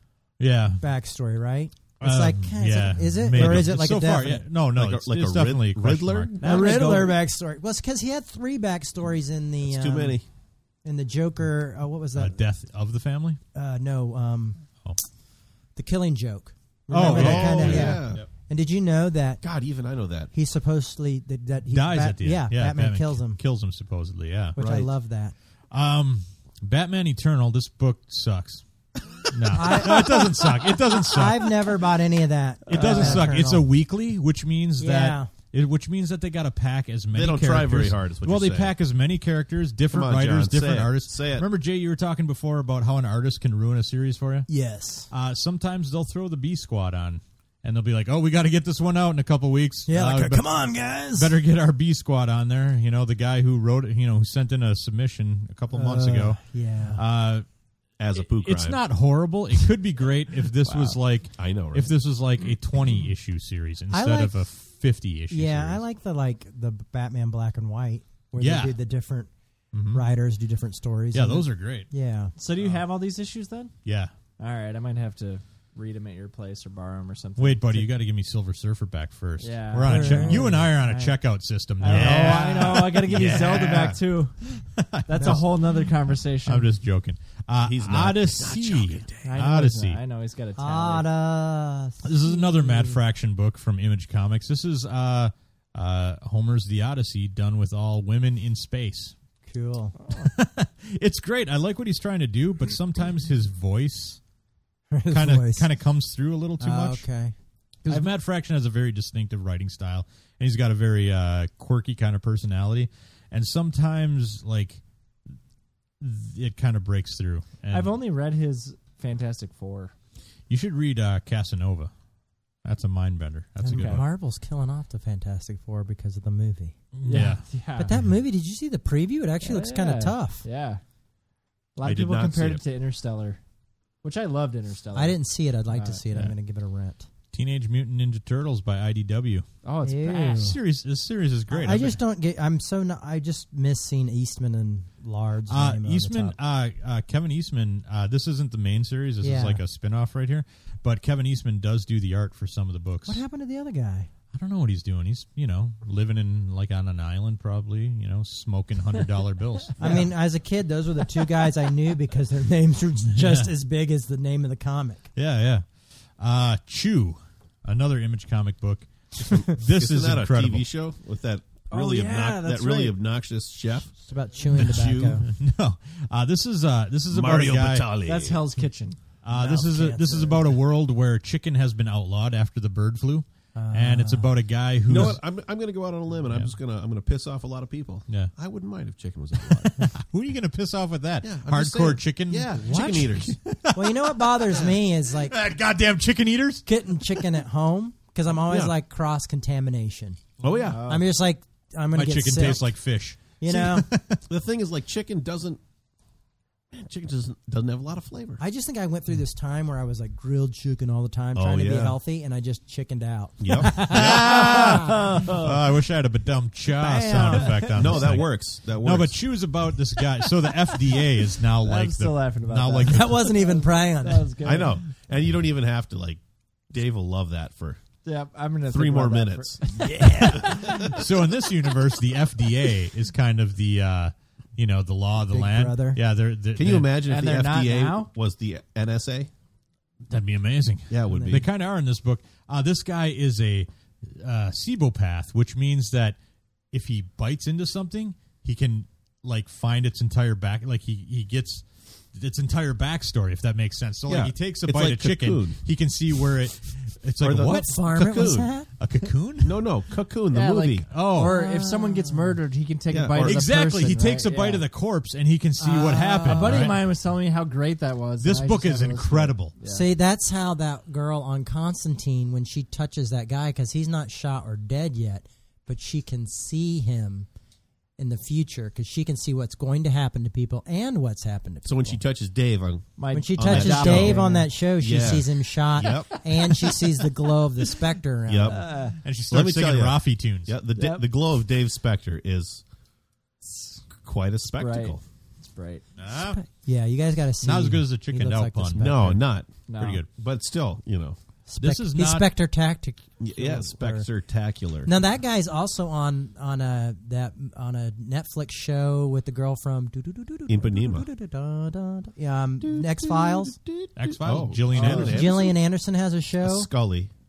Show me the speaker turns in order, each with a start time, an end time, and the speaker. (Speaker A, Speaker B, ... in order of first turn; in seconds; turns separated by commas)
Speaker A: 0.4-0.8, Speaker B: 0.8-4.4, Speaker A: 2.0-6.4, Speaker C: 3.4-3.7, Speaker C: 4.8-7.1, Speaker D: 6.4-7.2, Speaker B: 6.4-10.2, Speaker C: 9.6-10.2, Speaker B: 10.8-12.4, Speaker A: 12.1-13.4, Speaker B: 13.5-14.6, Speaker B: 15.8-19.4, Speaker A: 16.9-18.3, Speaker C: 17.0-18.2, Speaker C: 19.4-20.3, Speaker B: 20.3-23.4, Speaker A: 21.7-24.6, Speaker B: 24.5-25.3, Speaker C: 24.6-24.9, Speaker A: 25.7-28.6, Speaker A: 29.3-31.8, Speaker B: 29.5-33.7, Speaker D: 32.7-33.3, Speaker A: 32.7-44.5, Speaker B: 34.8-35.3, Speaker C: 37.1-38.7, Speaker C: 39.9-41.5, Speaker B: 44.5-45.1, Speaker A: 45.1-50.5, Speaker B: 49.9-51.4, Speaker A: 51.1-56.4, Speaker B: 55.7-57.0, Speaker A: 56.9-57.4, Speaker C: 58.0-58.8, Speaker A: 58.2-65.8, Speaker D: 60.6-61.0, Speaker C: 61.4-62.0, Speaker B: 63.9-64.4, Speaker B: 65.3-69.3, Speaker A: 68.4-68.8, Speaker A: 69.7-70.0, Speaker B: 69.9-72.3, Speaker A: 71.1-71.9, Speaker D: 72.4-73.7, Speaker A: 73.8-74.1, Speaker D: 74.4-77.9, Speaker A: 77.4-83.8, Speaker D: 79.4-81.2, Speaker B: 79.8-80.7, Speaker D: 81.8-84.3, Speaker C: 81.9-84.0, Speaker A: 84.6-85.5, Speaker D: 85.0-86.7, Speaker B: 85.2-85.4, Speaker A: 86.5-90.0, Speaker C: 87.7-89.3, Speaker D: 89.2-91.0, Speaker B: 90.6-93.0, Speaker A: 92.0-99.1, Speaker B: 99.4-100.0, Speaker A: 100.2-104.2, Speaker B: 104.9-105.7, Speaker A: 105.1-107.0, Speaker B: 106.6-107.3, Speaker A: 107.8-114.8, Speaker D: 107.9-108.1, Speaker A: 116.0-117.9, Speaker D: 117.7-119.9, Speaker A: 120.5-121.9, Speaker A: 122.6-124.1, Speaker B: 123.6-130.4, Speaker D: 123.7-124.0, Speaker A: 126.9-127.4, Speaker D: 127.0-127.9, Speaker D: 129.4-130.8, Speaker D: 131.8-133.4, Speaker C: 131.8-132.6, Speaker D: 134.0-135.2, Speaker B: 134.9-137.1, Speaker D: 135.7-136.0, Speaker A: 137.3-139.4, Speaker D: 139.6-140.5, Speaker B: 139.8-140.6, Speaker A: 140.3-142.0, Speaker B: 141.5-146.3, Speaker A: 145.5-153.2, Speaker B: 149.2-149.6, Speaker B: 153.1-154.1, Speaker A: 154.3-160.1, Speaker B: 159.8-165.1, Speaker A: 163.1-163.5, Speaker A: 165.1-165.6, Speaker A: 166.2-170.7, Speaker C: 169.2-173.9, Speaker D: 171.7-173.0, Speaker B: 173.9-175.2, Speaker A: 174.5-177.9, Speaker C: 174.5-175.2, Speaker C: 177.1-178.4, Speaker D: 178.0-179.0, Speaker A: 179.2-185.2, Speaker B: 179.3-180.5, Speaker B: 183.5-184.3, Speaker C: 184.9-189.9, Speaker A: 186.2-186.5, Speaker A: 189.6-197.2, Speaker C: 191.2-193.4, Speaker B: 192.8-193.1, Speaker B: 193.7-195.4, Speaker B: 196.7-200.2, Speaker C: 198.5-198.8, Speaker C: 200.4-201.1, Speaker B: 200.8-202.7, Speaker A: 201.9-204.2, Speaker B: 203.4-203.8, Speaker C: 204.3-205.6, Speaker C: 206.7-208.4, Speaker B: 208.4-215.3, Speaker C: 211.3-212.0, Speaker C: 213.4-214.4, Speaker A: 213.8-223.3, Speaker D: 214.5-215.5, Speaker B: 216.8-218.0, Speaker C: 217.7-219.2, Speaker D: 221.6-224.8, Speaker B: 222.8-224.3, Speaker C: 224.4-227.8, Speaker D: 228.0-230.7, Speaker C: 228.7-229.6, Speaker B: 229.7-230.8, Speaker C: 230.3-231.0, Speaker A: 230.3-236.9, Speaker B: 235.3-236.0, Speaker C: 236.5-239.3, Speaker D: 237.0-238.1, Speaker A: 240.1-246.2, Speaker C: 240.9-241.5, Speaker B: 241.1-241.5, Speaker A: 246.7-259.6, Speaker C: 254.1-255.6, Speaker C: 257.2-258.5, Speaker B: 257.4-258.7, Speaker C: 259.4-260.9, Speaker D: 260.3-264.6, Speaker A: 260.9-261.4, Speaker B: 261.2-262.4, Speaker C: 262.9-263.5, Speaker A: 263.2-266.8, Speaker B: 265.6-266.8, Speaker D: 266.2-269.9, Speaker A: 268.2-269.5, Speaker B: 269.7-277.3, Speaker B: 278.0-282.0, Speaker C: 281.6-286.7, Speaker D: 283.0-284.5, Speaker B: 283.1-288.7, Speaker C: 288.2-288.6, Speaker D: 288.4-288.9, Speaker A: 289.0-290.6, Speaker C: 289.3-292.6, Speaker D: 290.8-291.1, Speaker C: 294.0-295.0, Speaker D: 294.6-295.8, Speaker A: 296.0-296.4, Speaker B: 296.1-299.2, Speaker A: 297.4-299.1, Speaker C: 298.8-301.2, Speaker D: 299.7-300.0, Speaker A: 299.8-300.1, Speaker B: 301.5-304.1, Speaker A: 301.6-302.3, Speaker C: 303.2-304.9, Speaker B: 304.8-313.6, Speaker C: 310.5-311.1, Speaker C: 312.6-315.6, Speaker A: 313.9-315.2, Speaker D: 314.7-315.1, Speaker B: 314.8-316.7, Speaker C: 316.4-317.1